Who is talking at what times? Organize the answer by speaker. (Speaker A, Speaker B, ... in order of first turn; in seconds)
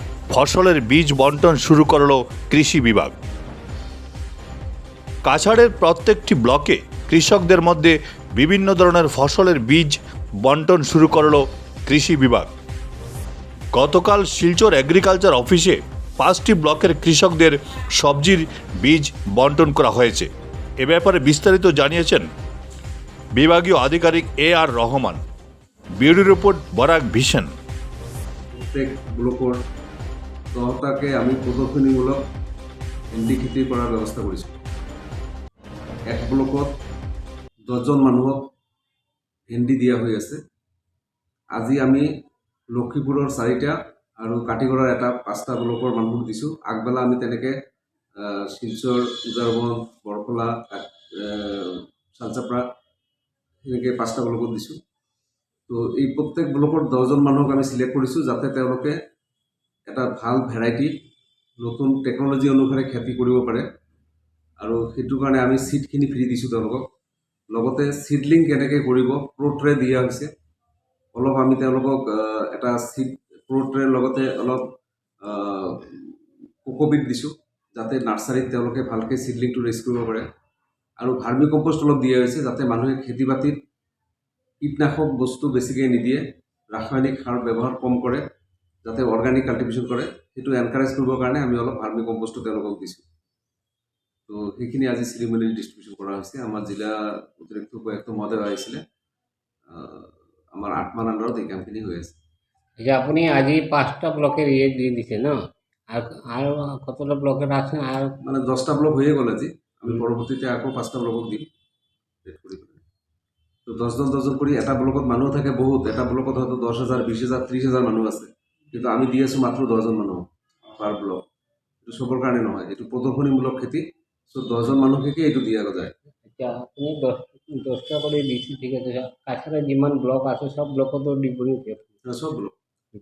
Speaker A: 0.3-3.1, 5.2-12.5, 13.7-20.3, 20.8-22.3, 23.4-25.2, 26.0-27.5
Speaker B: 28.6-29.6, 30.5-32.2, 33.1-34.6, 36.1-36.7, 37.7-38.4, 39.5-40.4, 41.5-42.0, 42.7-47.5, 48.2-52.6, 53.6-54.8, 55.7-59.0, 59.9-60.9, 61.6-63.6, 64.6-66.8, 67.5-70.3, 71.1-74.6, 75.2-76.1, 76.6-80.3, 81.0-83.6, 84.6-88.2, 88.8-93.0, 94.3-98.8, 99.7-102.2, 108.2-111.5, 112.2-112.8, 113.7-120.2, 120.7-121.2, 121.8-126.0, 132.0-132.5
Speaker C: 102.8-105.4, 105.9-108.2, 126.2-131.9